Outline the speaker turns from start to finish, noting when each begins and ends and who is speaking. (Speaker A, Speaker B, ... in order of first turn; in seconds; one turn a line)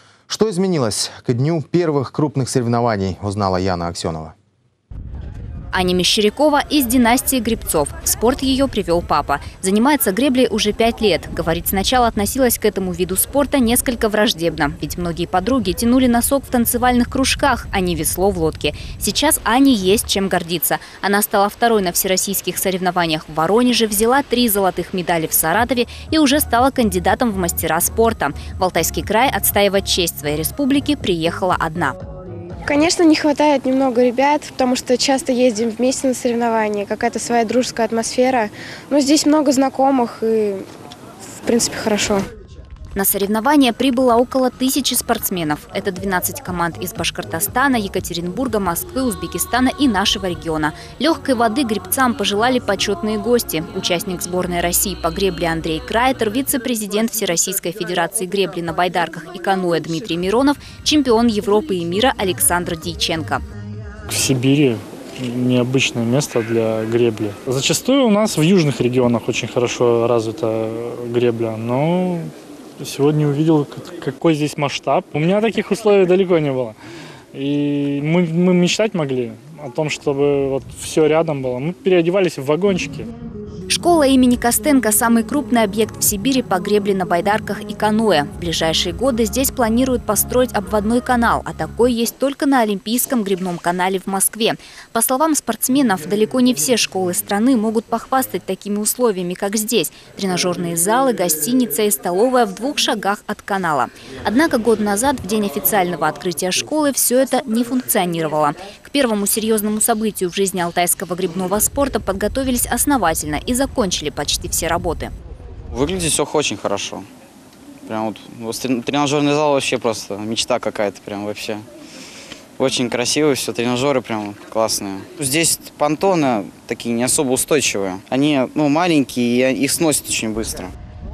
Speaker A: 0.3-4.3
Speaker B: 5.7-32.0
Speaker C: 32.7-40.7
Speaker C: 41.4-42.2
Speaker B: 43.0-63.4
Speaker D: 64.1-76.8
Speaker D: 77.3-83.1
Speaker B: 83.7-115.1
Speaker E: 115.7-117.0
Speaker E: 117.8-121.7
Speaker E: 122.6-130.7